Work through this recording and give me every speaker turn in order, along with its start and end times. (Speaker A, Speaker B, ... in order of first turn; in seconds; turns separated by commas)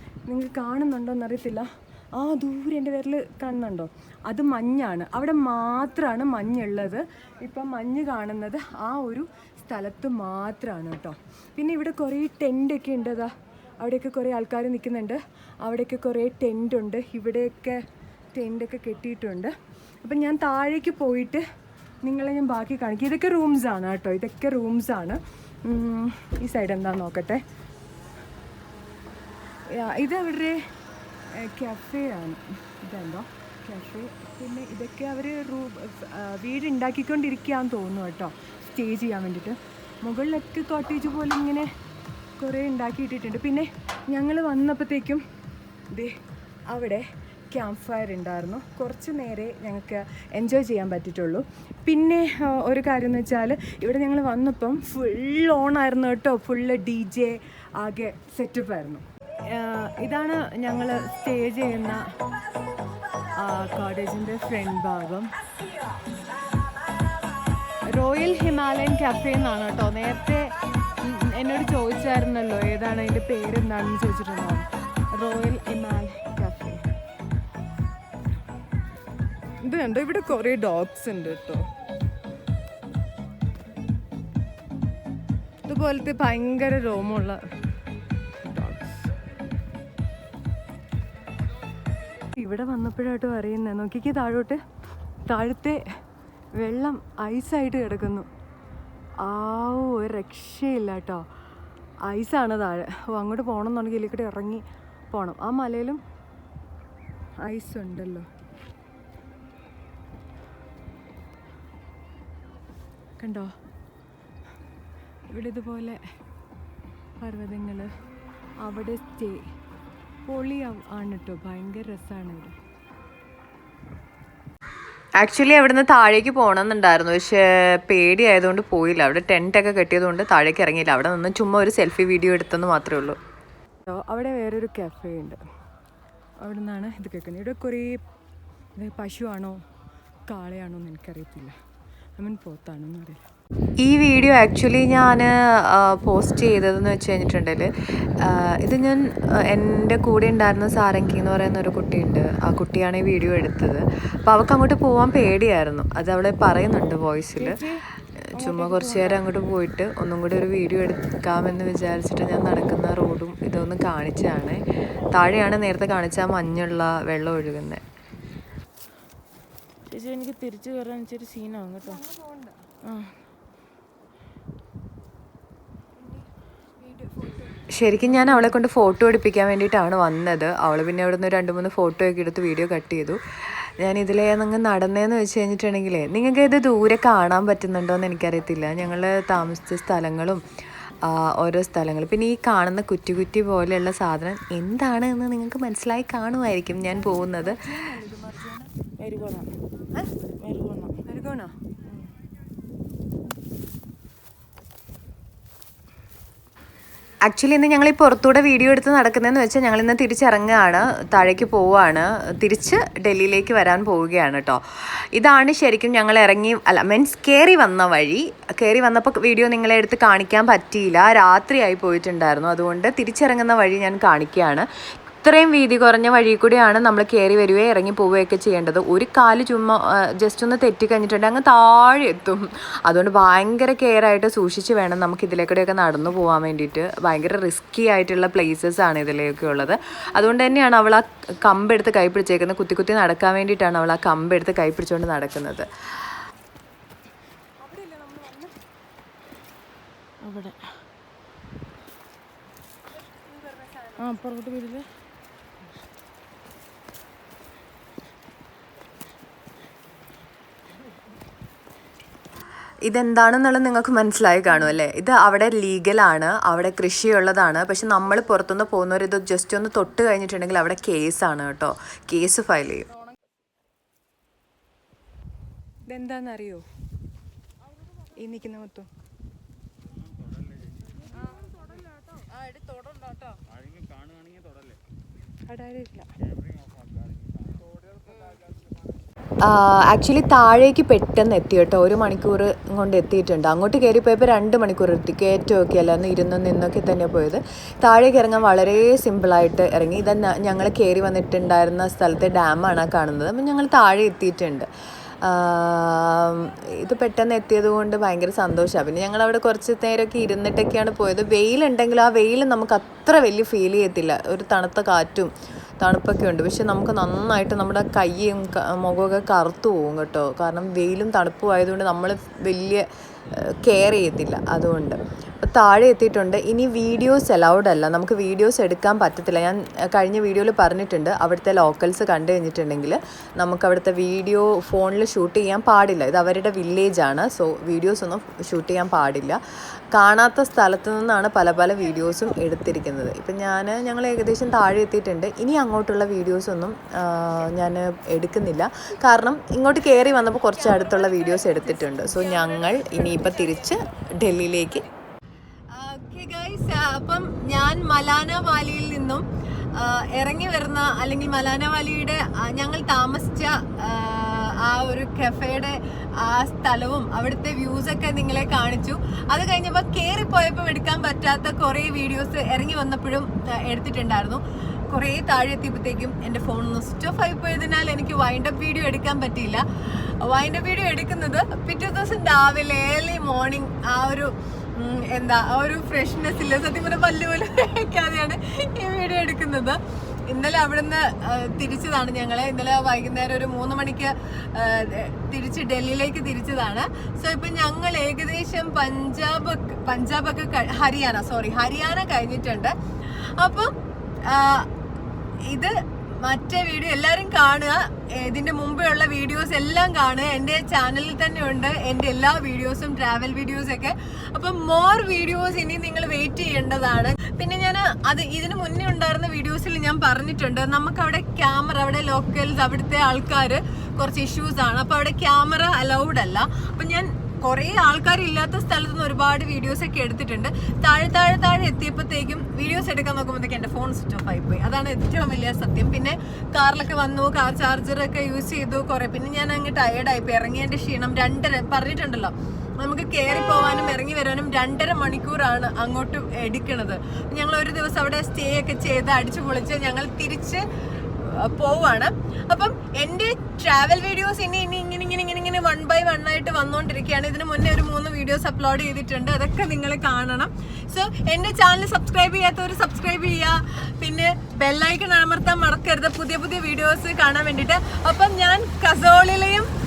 Speaker A: 0.3-17.8, Speaker A: 18.3-19.5, Speaker A: 20.0-21.4, Speaker A: 22.0-27.4, Speaker A: 29.7-30.6, Speaker A: 31.3-41.7, Speaker A: 42.4-45.2, Speaker A: 46.7-62.0, Speaker A: 63.4-65.3, Speaker A: 67.9-76.8, Speaker A: 79.6-81.7, Speaker A: 85.7-87.4, Speaker A: 88.4-89.1, Speaker A: 92.4-94.6, Speaker A: 95.2-95.8, Speaker A: 96.6-98.3, Speaker A: 99.2-101.3, Speaker A: 102.1-106.0, Speaker A: 107.4-108.3, Speaker A: 113.2-113.5, Speaker A: 115.3-116.0, Speaker A: 117.2-117.9, Speaker A: 118.6-119.5, Speaker A: 120.3-122.6, Speaker B: 125.2-133.2, Speaker A: 133.9-135.4, Speaker A: 136.4-138.0, Speaker A: 138.8-139.6, Speaker A: 140.3-141.6, Speaker A: 142.2-143.3, Speaker B: 143.8-157.6, Speaker C: 157.4-157.8, Speaker B: 158.3-167.8, Speaker C: 158.3-159.2, Speaker C: 169.9-172.0, Speaker A: 171.8-172.6, Speaker C: 172.8-173.2, Speaker A: 176.0-177.7, Speaker B: 177.7-183.2, Speaker B: 183.8-190.4, Speaker B: 191.1-197.6, Speaker A: 196.7-198.7, Speaker C: 199.0-199.5, Speaker C: 200.4-201.0, Speaker A: 201.1-201.5, Speaker B: 207.3-214.6, Speaker B: 215.2-224.7, Speaker B: 225.2-245.7, Speaker A: 247.6-248.6, Speaker C: 250.2-250.8, Speaker A: 253.1-254.0, Speaker C: 254.0-254.9, Speaker B: 262.9-272.9, Speaker A: 275.9-276.6, Speaker A: 278.2-278.9, Speaker A: 285.5-286.1, Speaker B: 289.5-304.7, Speaker B: 305.2-339.4, Speaker B: 339.9-354.8, Speaker A: 350.4-354.0, Speaker A: 355.8-359.2, Speaker A: 359.8-365.7, Speaker A: 366.2-373.2, Speaker B: 368.3-368.7, Speaker A: 373.7-374.4, Speaker A: 374.9-376.4, Speaker B: 376.5-377.0, Speaker A: 377.2-379.5, Speaker A: 380.3-382.0, Speaker B: 382.2-382.8, Speaker A: 382.8-383.8, Speaker B: 385.3-388.4, Speaker A: 388.8-389.5, Speaker A: 390.3-391.4, Speaker B: 391.5-392.2, Speaker A: 392.4-394.1, Speaker B: 395.3-396.3, Speaker A: 396.4-396.7, Speaker A: 397.2-402.7, Speaker A: 403.4-403.7, Speaker A: 404.3-404.6, Speaker A: 406.2-426.2, Speaker A: 426.8-450.6, Speaker A: 451.2-463.5, Speaker A: 464.0-469.7